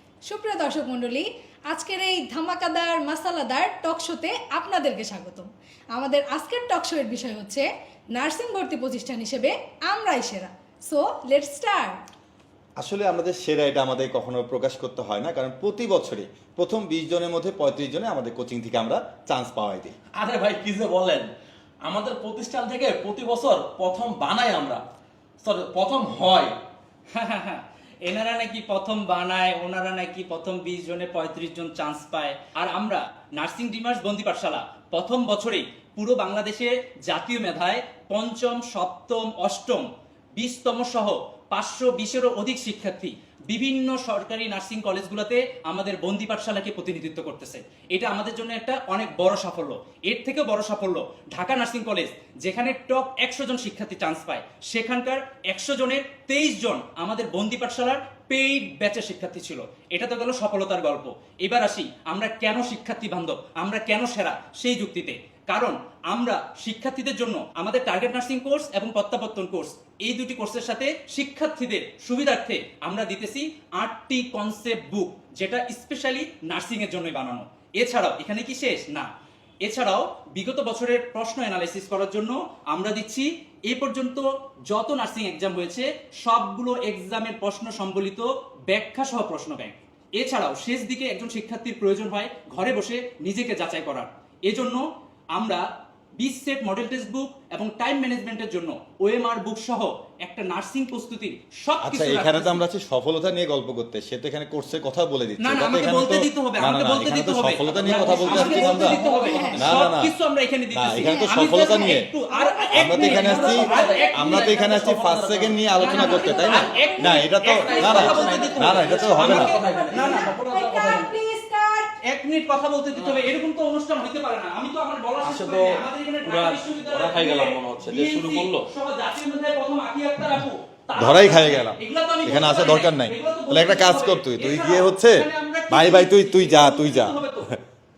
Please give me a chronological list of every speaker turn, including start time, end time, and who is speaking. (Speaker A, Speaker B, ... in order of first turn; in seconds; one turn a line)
Speaker A: 0.3-11.9
Speaker B: 12.8-19.9
Speaker C: 20.2-21.3
Speaker C: 21.8-24.8
Speaker C: 25.4-26.5
Speaker D: 27.1-79.1
Speaker D: 79.6-94.8
Speaker D: 95.3-95.6
Speaker D: 96.2-102.6
Speaker B: 101.8-109.0
Speaker D: 105.4-114.6
Speaker A: 108.0-109.7
Speaker C: 109.0-109.5
Speaker B: 109.5-110.1
Speaker B: 110.7-112.1
Speaker A: 111.0-114.1
Speaker B: 112.7-119.6
Speaker C: 113.5-116.6
Speaker A: 115.8-118.5
Speaker D: 115.8-121.1
Speaker C: 117.4-120.6
Speaker A: 119.4-121.9
Speaker D: 122.0-137.6
Speaker C: 125.2-128.7
Speaker B: 130.9-137.6